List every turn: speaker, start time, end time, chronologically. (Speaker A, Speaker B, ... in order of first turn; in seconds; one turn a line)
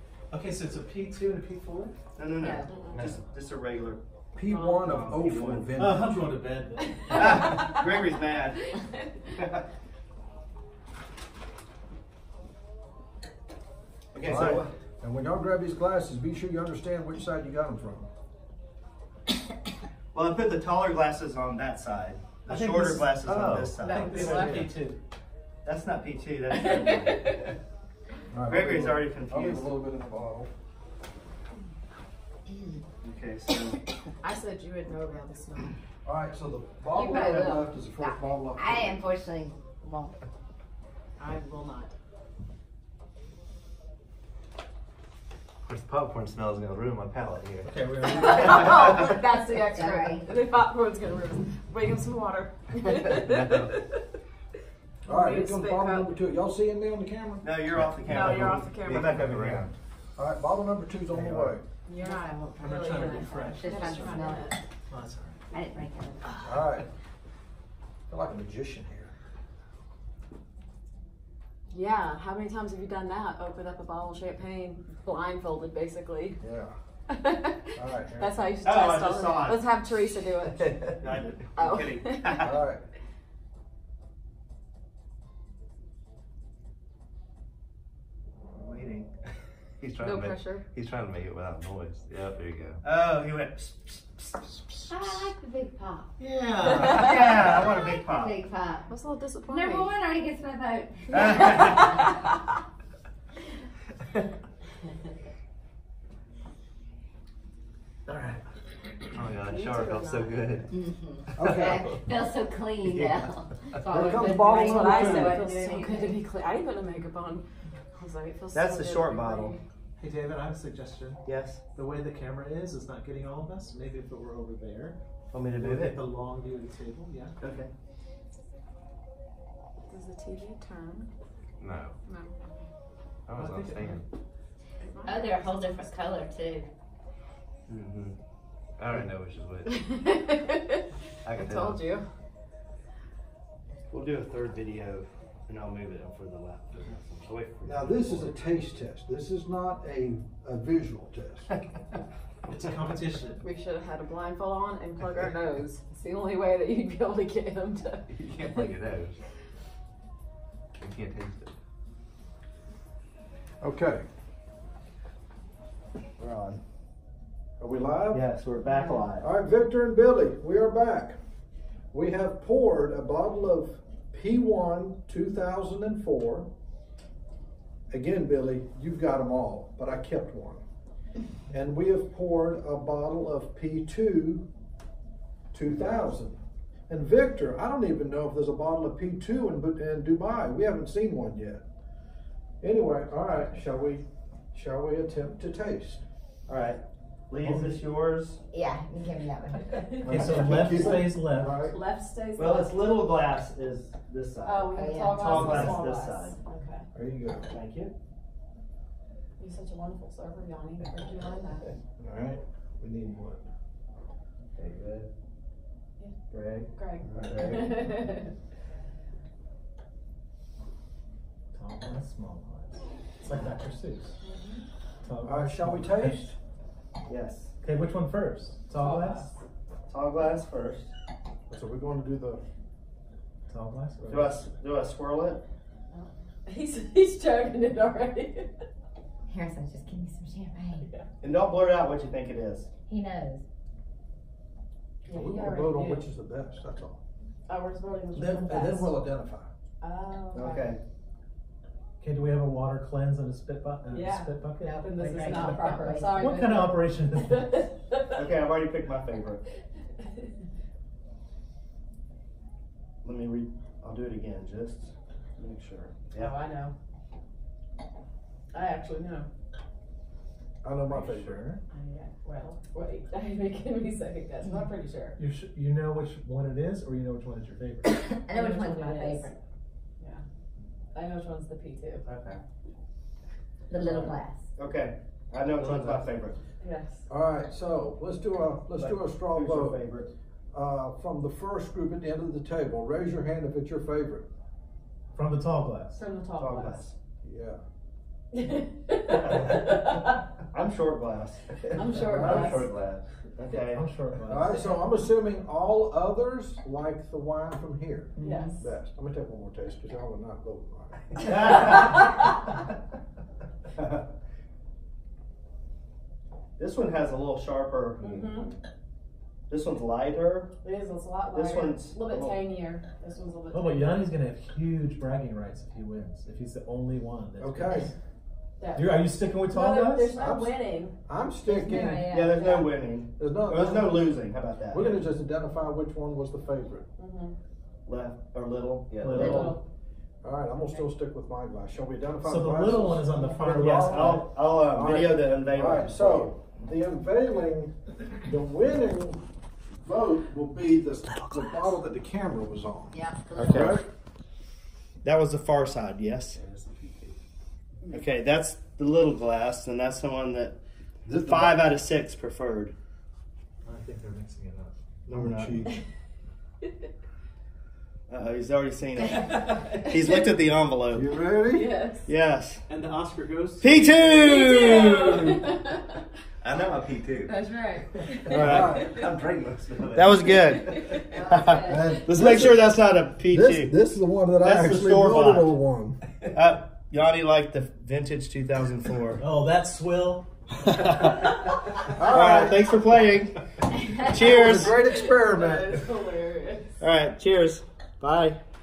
Speaker A: 0.3-1.9
Speaker B: 2.2-4.0
Speaker C: 2.4-2.7
Speaker D: 2.6-3.0
Speaker E: 2.9-3.2
Speaker F: 4.3-6.2
Speaker D: 4.5-4.9
Speaker B: 4.9-5.8
Speaker A: 5.8-7.7
Speaker D: 7.0-7.7
Speaker B: 7.1-8.7
Speaker D: 8.8-9.1
Speaker B: 9.3-9.6
Speaker B: 14.1-14.7
Speaker F: 14.2-18.1
Speaker B: 20.1-24.5
Speaker A: 22.5-25.0
Speaker E: 23.2-23.9
Speaker D: 23.8-24.7
Speaker B: 25.6-27.5
Speaker D: 26.5-27.5
Speaker F: 28.3-30.5
Speaker B: 28.5-29.7
Speaker B: 33.0-33.8
Speaker D: 34.2-35.8
Speaker F: 36.0-39.1
Speaker C: 36.9-40.1
Speaker D: 37.1-37.3
Speaker D: 41.2-41.9
Speaker E: 45.6-49.1
Speaker A: 47.7-48.8
Speaker D: 48.0-54.0
Speaker C: 49.6-50.3
Speaker E: 53.0-53.7
Speaker F: 55.0-57.5
Speaker D: 55.1-56.1
Speaker B: 57.4-59.7
Speaker E: 57.7-59.7
Speaker D: 58.1-59.3
Speaker F: 60.2-61.6
Speaker B: 61.1-61.6
Speaker D: 61.9-64.6
Speaker C: 62.0-64.5
Speaker A: 62.6-64.2
Speaker A: 64.9-65.4
Speaker C: 65.5-66.5
Speaker F: 66.4-66.8
Speaker F: 68.1-69.1
Speaker D: 71.7-76.4
Speaker F: 76.4-76.8
Speaker D: 77.1-81.0
Speaker F: 77.8-78.5
Speaker B: 78.6-79.7
Speaker B: 81.0-82.7
Speaker D: 81.6-82.5
Speaker F: 82.4-82.8
Speaker B: 88.5-89.1
Speaker E: 89.8-92.8
Speaker D: 90.0-90.7
Speaker B: 92.8-94.5
Speaker C: 94.9-96.1
Speaker A: 96.2-97.3
Speaker B: 96.7-98.4
Speaker C: 97.6-98.9
Speaker D: 98.9-99.9
Speaker C: 99.5-102.1
Speaker B: 101.1-102.0
Speaker D: 101.6-101.8
Speaker A: 108.1-108.4
Speaker E: 109.1-110.8
Speaker D: 109.5-110.3
Speaker C: 110.8-116.2
Speaker F: 111.4-111.9
Speaker E: 111.4-112.0
Speaker E: 112.9-113.2
Speaker F: 113.9-115.4
Speaker D: 114.4-119.6
Speaker B: 118.5-119.6
Speaker A: 120.0-125.0
Speaker B: 121.3-121.6
Speaker B: 125.3-126.0
Speaker A: 125.5-127.3
Speaker B: 127.4-127.7
Speaker D: 129.9-131.1
Speaker E: 131.6-131.9
Speaker D: 132.1-132.5
Speaker E: 133.3-134.1
Speaker A: 133.3-134.0
Speaker D: 134.8-135.9
Speaker C: 135.0-136.7
Speaker E: 137.7-138.2
Speaker E: 138.8-139.8
Speaker D: 139.7-142.1
Speaker E: 141.2-141.8
Speaker B: 143.9-148.4
Speaker F: 147.6-151.5
Speaker A: 152.4-153.4
Speaker D: 153.4-158.6
Speaker E: 158.1-159.2
Speaker E: 160.8-161.6
Speaker F: 163.6-164.0
Speaker B: 166.2-166.6
Speaker F: 167.6-168.2
Speaker B: 168.1-169.3
Speaker D: 168.6-169.1
Speaker F: 169.2-171.2
Speaker F: 171.9-176.5
Speaker F: 177.9-180.6
Speaker F: 181.5-184.5
Speaker F: 185.5-191.6
Speaker F: 192.6-196.0
Speaker B: 196.5-198.4
Speaker A: 197.4-197.8
Speaker C: 198.5-199.9
Speaker D: 199.7-203.0
Speaker F: 200.0-201.8
Speaker A: 200.1-201.6
Speaker B: 202.4-206.4
Speaker D: 204.4-206.9
Speaker C: 204.7-205.7
Speaker F: 206.9-207.5
Speaker B: 207.5-207.9
Speaker D: 209.4-211.7
Speaker F: 212.0-213.5
Speaker B: 214.6-215.1
Speaker B: 216.3-218.1
Speaker D: 216.8-218.3
Speaker A: 221.5-224.1
Speaker D: 224.2-224.6
Speaker A: 225.0-226.3
Speaker F: 225.2-226.3
Speaker B: 227.1-227.5
Speaker A: 227.6-229.3
Speaker D: 228.7-229.4
Speaker B: 229.9-230.9
Speaker F: 231.5-232.4
Speaker A: 233.5-234.4
Speaker B: 234.1-235.4
Speaker D: 235.9-238.6
Speaker C: 239.3-240.9
Speaker D: 240.8-241.1
Speaker B: 241.2-242.7
Speaker C: 242.9-243.4
Speaker D: 245.1-246.1
Speaker F: 245.1-247.0
Speaker D: 247.5-248.9
Speaker F: 248.1-249.5
Speaker D: 249.8-250.8
Speaker B: 250.3-250.8
Speaker A: 252.0-257.6
Speaker D: 253.9-258.2
Speaker C: 254.6-256.3
Speaker B: 258.1-259.4
Speaker B: 263.0-266.4
Speaker D: 266.1-266.7
Speaker D: 268.5-269.3
Speaker F: 270.6-271.6
Speaker A: 270.9-271.6
Speaker D: 271.7-275.2
Speaker A: 275.2-278.1
Speaker C: 278.0-279.3
Speaker D: 278.3-279.3
Speaker D: 280.9-282.0
Speaker B: 282.1-282.4
Speaker C: 283.7-284.4
Speaker B: 283.8-286.4
Speaker A: 285.6-286.0
Speaker D: 286.6-287.1
Speaker F: 287.1-289.9
Speaker B: 288.8-290.1
Speaker F: 290.5-294.3
Speaker A: 295.1-296.0
Speaker D: 295.9-296.8
Speaker B: 296.4-296.9
Speaker F: 297.2-297.6
Speaker D: 298.3-300.2
Speaker B: 299.1-303.9
Speaker D: 301.8-302.7
Speaker A: 303.7-304.6
Speaker F: 304.3-311.3
Speaker D: 308.2-308.7
Speaker B: 311.2-312.3
Speaker B: 313.8-314.1
Speaker B: 316.6-318.3
Speaker D: 318.0-318.5
Speaker B: 319.5-320.5
Speaker D: 320.6-324.1
Speaker B: 321.3-322.4
Speaker A: 323.5-327.9
Speaker F: 327.4-327.9
Speaker D: 328.6-331.0
Speaker A: 328.8-330.2
Speaker F: 330.1-332.3
Speaker C: 331.4-332.8
Speaker B: 332.0-334.9
Speaker F: 333.2-334.1
Speaker F: 334.7-336.9
Speaker D: 337.0-337.4
Speaker B: 337.9-339.6
Speaker E: 338.9-339.3
Speaker A: 339.0-339.6
Speaker D: 339.1-339.6
Speaker F: 340.2-349.2
Speaker D: 340.6-340.8
Speaker A: 342.2-344.3
Speaker B: 343.8-346.4
Speaker F: 349.8-353.9
Speaker C: 352.9-353.8
Speaker B: 353.4-353.8
Speaker B: 355.0-356.4
Speaker B: 357.9-360.6
Speaker F: 361.1-361.7
Speaker B: 361.2-362.7
Speaker A: 363.6-364.7
Speaker B: 365.1-365.7
Speaker F: 365.1-365.8
Speaker B: 368.1-371.1
Speaker F: 370.9-371.7
Speaker D: 371.5-372.1
Speaker B: 372.1-372.6
Speaker A: 372.7-374.4
Speaker B: 373.6-375.3
Speaker D: 374.2-375.9
Speaker E: 374.5-375.1
Speaker E: 376.4-377.4
Speaker D: 377.2-379.0
Speaker F: 378.3-379.1
Speaker E: 378.3-381.0
Speaker B: 378.3-378.9
Speaker B: 379.9-383.8
Speaker D: 380.5-381.2
Speaker C: 381.1-381.8
Speaker F: 381.6-382.7
Speaker F: 383.3-386.0
Speaker B: 384.4-385.6
Speaker B: 386.3-389.2
Speaker A: 389.2-390.3
Speaker B: 391.9-393.4
Speaker F: 391.9-392.8
Speaker B: 394.0-394.8
Speaker D: 394.1-396.8
Speaker F: 394.1-395.9
Speaker B: 396.8-398.4